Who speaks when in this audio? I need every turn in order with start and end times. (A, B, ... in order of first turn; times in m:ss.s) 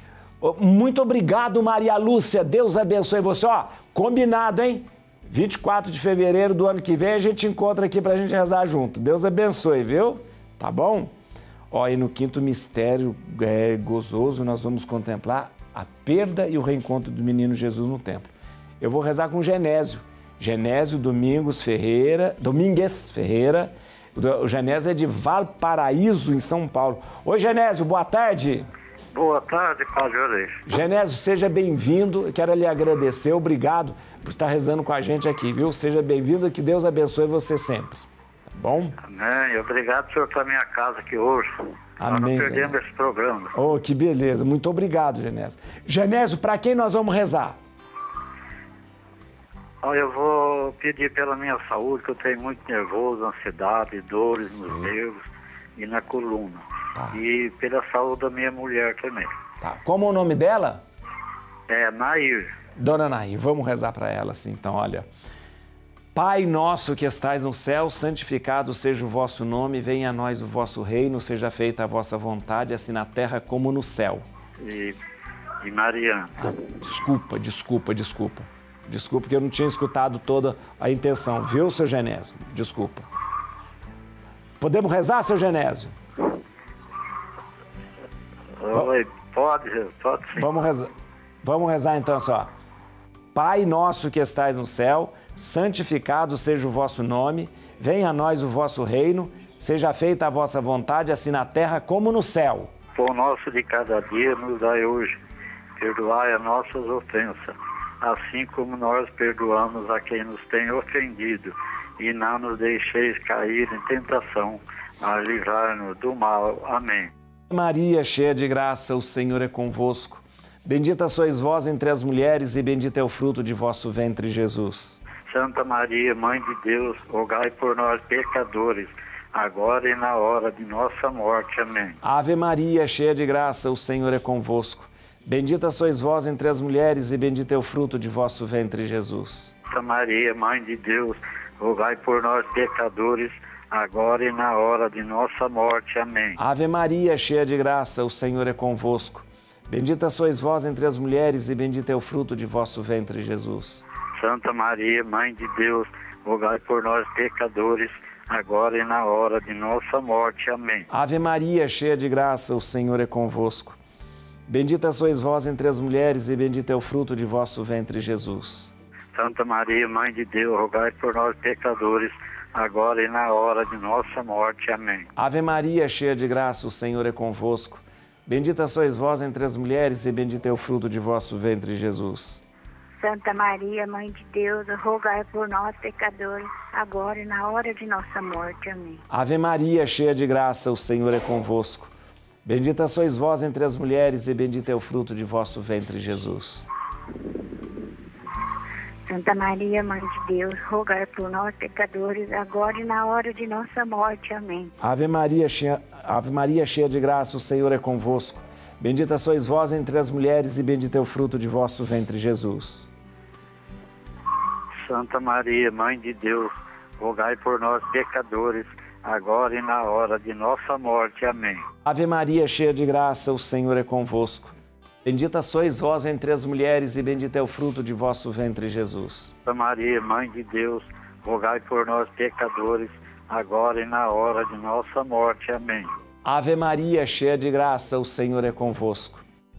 0:00.4-0:11.1 A
0:11.7-0:28.7 A
0:29.1-0:30.6 B
0:30.7-0:39.0 A
0:39.0-0:41.5 B
0:42.0-0:42.8 A
0:42.0-0:43.6 B
0:43.6-0:47.6 A
0:49.8-0:55.2 B
0:55.8-0:59.3 B
0:59.6-1:00.8 A
1:01.7-1:02.5 B
1:02.8-1:05.1 A
1:06.1-1:14.2 A
1:14.6-1:15.0 B
1:15.6-1:16.5 B
1:16.4-1:23.1 A
1:24.6-1:26.0 A
1:28.6-1:30.4 B
1:30.3-1:30.9 A
1:31.4-1:32.5 A
1:33.3-1:42.7 A
1:43.0-1:45.2 B
1:45.8-1:57.1 B
1:57.5-2:05.0 A
2:05.2-2:12.0 B
2:12.0-2:19.5 A
2:19.7-2:26.4 B
2:26.4-2:33.9 A
2:34.2-2:40.9 B
2:40.9-2:43.8 A
2:44.5-2:48.7 A
2:49.1-2:55.1 B
2:55.2-3:02.4 A
3:03.0-3:09.0 C
3:09.1-3:11.9 A
3:12.4-3:16.7 A
3:19.1-3:24.7 C
3:24.8-3:32.9 A
3:34.8-3:41.6 B
3:41.8-3:49.3 A
3:49.4-3:55.9 B
3:56.2-3:59.2 A